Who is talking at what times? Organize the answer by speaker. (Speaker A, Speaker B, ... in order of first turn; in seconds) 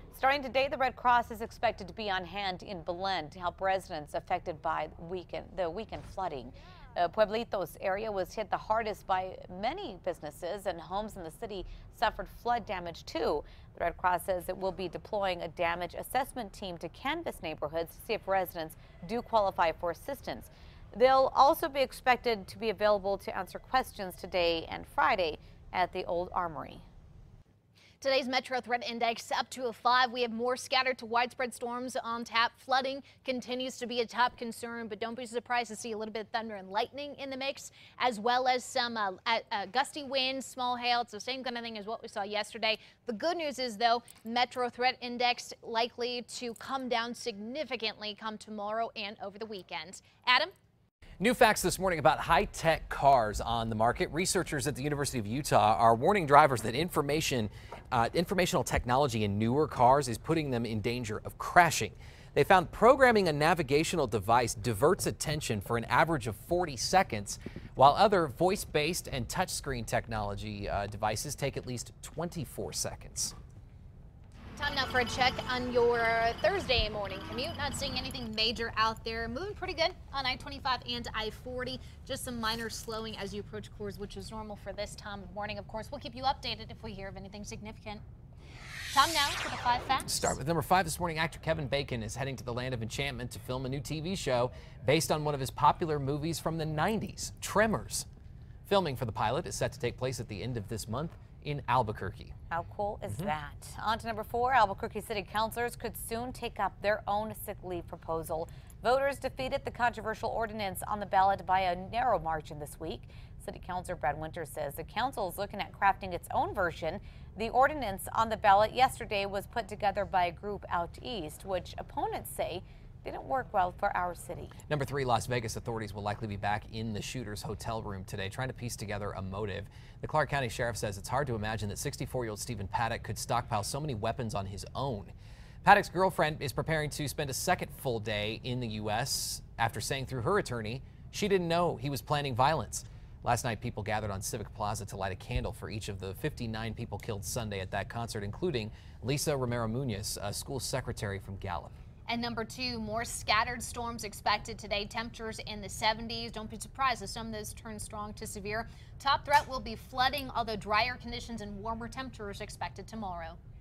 Speaker A: 0.1-26.9, 102.5-124.5
Speaker B: 28.0-50.5, 74.6-88.0, 88.9-90.4, 152.1-163.4
Speaker C: 51.2-73.3, 90.1-98.1, 98.7-102.3, 124.7-151.8